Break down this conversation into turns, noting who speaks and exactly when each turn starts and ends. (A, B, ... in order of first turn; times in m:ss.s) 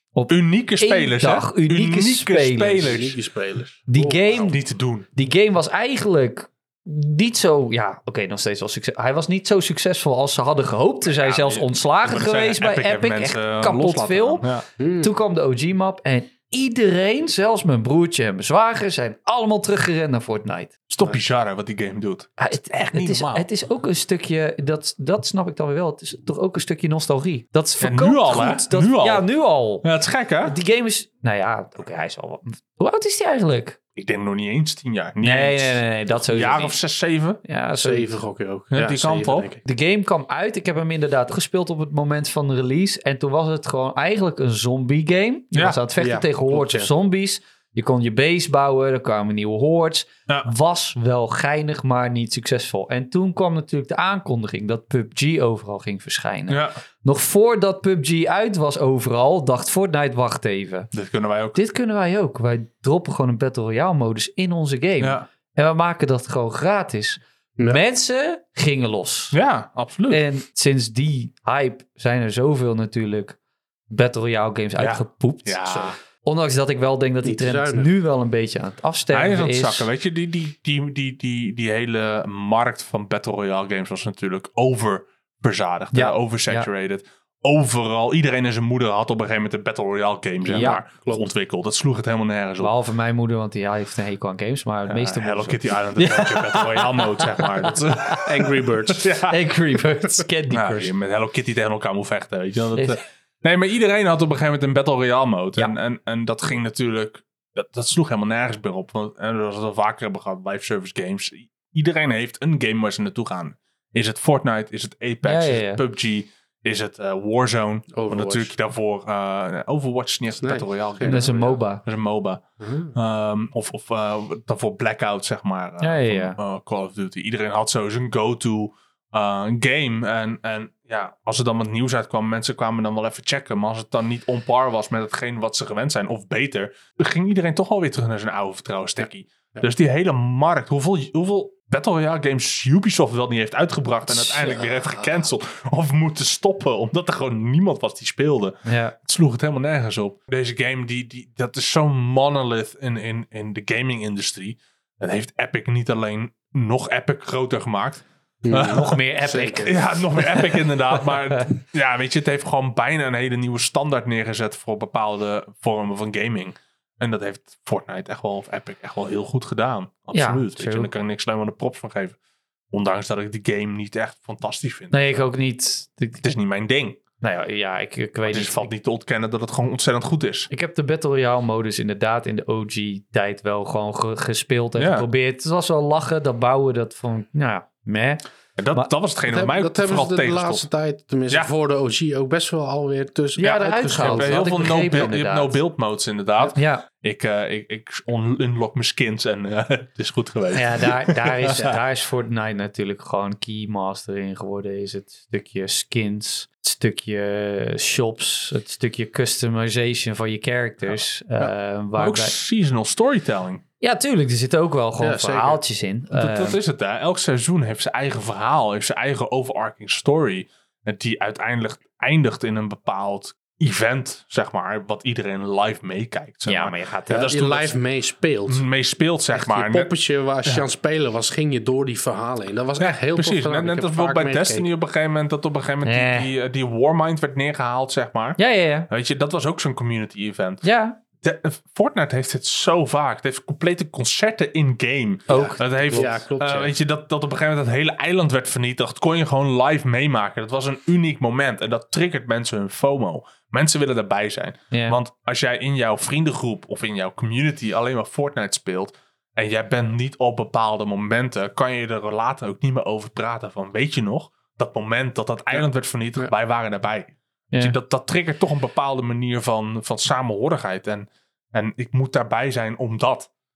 0:00.1-0:02.9 A
0:00.3-0:03.2 B
0:02.8-0:04.5 C
0:03.9-0:14.4 A
0:04.3-0:05.1 B
0:11.1-0:14.6 B
0:14.8-0:15.1 C
0:15.0-0:20.7 A
0:20.9-0:23.4 B
0:22.4-0:29.9 A
0:27.8-0:29.3 B
0:29.8-0:30.6 B
0:30.4-0:33.8 A
0:34.0-0:37.4 B
0:35.2-0:36.8 A
0:37.4-0:38.2 A
0:37.8-0:39.6 C
0:38.7-0:39.5 B
0:39.6-1:00.9 A
0:45.5-0:45.8 B
0:46.0-0:46.9 C
0:56.5-0:56.7 B
1:00.9-1:01.6 B
1:01.5-1:09.4 A
1:09.3-1:10.2 B
1:10.1-1:13.4 A
1:13.9-1:19.9 A
1:14.8-1:15.9 B
1:17.2-1:17.9 C
1:19.1-1:32.7 B
1:25.9-1:26.6 A
1:30.5-1:30.8 A
1:30.5-1:31.3 C
1:32.6-1:37.8 A
1:34.9-1:39.4 B
1:38.2-1:39.1 C
1:39.3-1:40.9 A
1:40.5-2:39.0 B
1:55.2-1:55.8 A
1:57.9-1:58.5 C
2:00.4-2:01.6 C
2:01.0-2:01.8 A
2:02.6-2:02.9 C
2:05.8-2:06.4 A
2:24.1-2:24.6 A
2:28.6-2:28.9 A
2:38.4-2:39.7 C
2:38.5-2:41.4 A
2:39.6-2:52.2 B
2:50.1-2:50.9 A
2:52.7-2:55.0 B
2:54.9-2:56.3 A
2:56.2-2:57.0 B
2:57.2-2:58.7 A
2:58.3-3:00.5 B
3:00.5-3:08.9 A
3:04.8-3:05.1 B
3:08.6-3:10.6 B
3:09.3-3:14.7 C
3:13.4-3:15.6 A
3:13.9-3:21.6 B
3:16.5-3:16.8 A
3:20.5-3:32.3 A
3:32.0-3:33.6 B
3:33.8-3:36.6 A
3:35.0-3:35.6 C
3:36.1-3:47.7 B
3:46.5-3:47.3 A
3:47.1-3:48.6 C
3:48.5-3:49.9 B
3:49.3-3:54.7 C
3:52.8-4:00.6 B
3:55.8-3:56.3 A
3:58.4-3:58.9 A
4:00.6-4:01.0 A
4:01.2-4:33.3 B
4:05.3-4:05.6 A
4:05.3-4:06.7 C
4:14.7-4:15.0 A